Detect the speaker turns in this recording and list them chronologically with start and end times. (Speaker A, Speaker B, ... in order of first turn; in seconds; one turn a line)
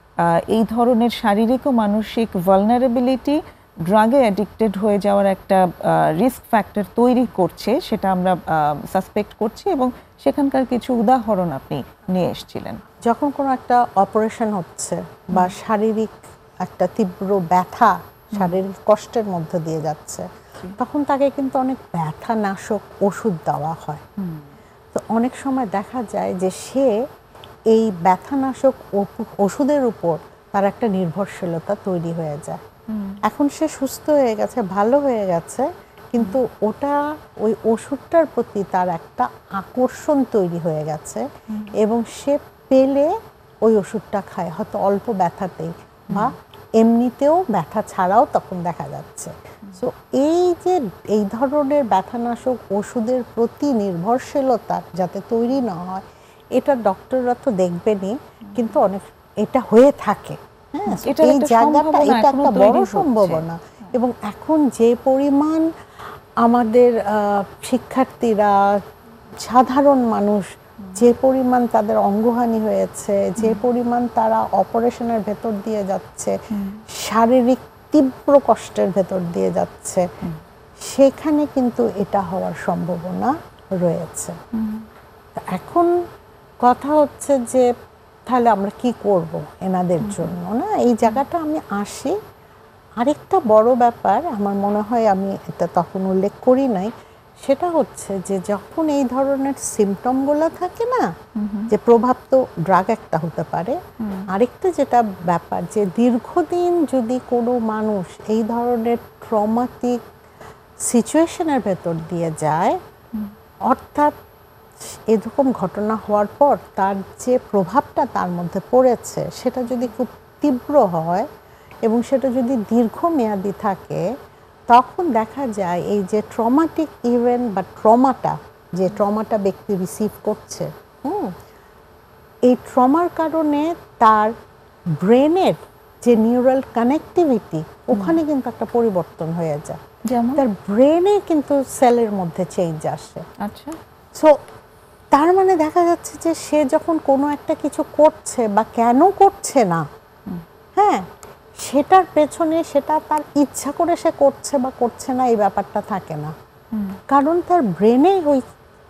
Speaker A: 0.2-12.8
Speaker B: 13.1-24.0
Speaker A: 18.4-18.6
Speaker A: 24.2-24.5
Speaker B: 24.9-26.9
Speaker B: 27.7-32.6
Speaker A: 32.9-33.2
Speaker B: 33.3-41.2
Speaker A: 41.5-41.8
Speaker B: 41.8-43.1
Speaker B: 43.6-65.7
Speaker A: 60.9-63.9
Speaker B: 66.4-68.8
Speaker B: 69.4-76.3
Speaker A: 76.5-76.8
Speaker B: 76.9-80.1
Speaker B: 80.8-84.4
Speaker A: 84.5-84.8
Speaker B: 85.3-85.9
Speaker B: 86.6-87.7
Speaker B: 88.3-92.2
Speaker A: 90.0-90.3
Speaker B: 93.0-101.1
Speaker A: 101.4-101.7
Speaker B: 101.7-110.0
Speaker A: 104.0-104.3
Speaker B: 110.8-112.8
Speaker B: 113.7-114.2
Speaker B: 114.8-121.3
Speaker B: 121.9-124.0
Speaker B: 124.7-131.3
Speaker B: 132.5-134.3
Speaker B: 135.0-139.8
Speaker A: 137.9-138.2
Speaker A: 140.1-140.4
Speaker B: 140.3-143.2
Speaker A: 143.4-143.8
Speaker B: 145.1-149.9
Speaker B: 150.8-156.3
Speaker A: 156.7-157.0
Speaker B: 157.1-158.4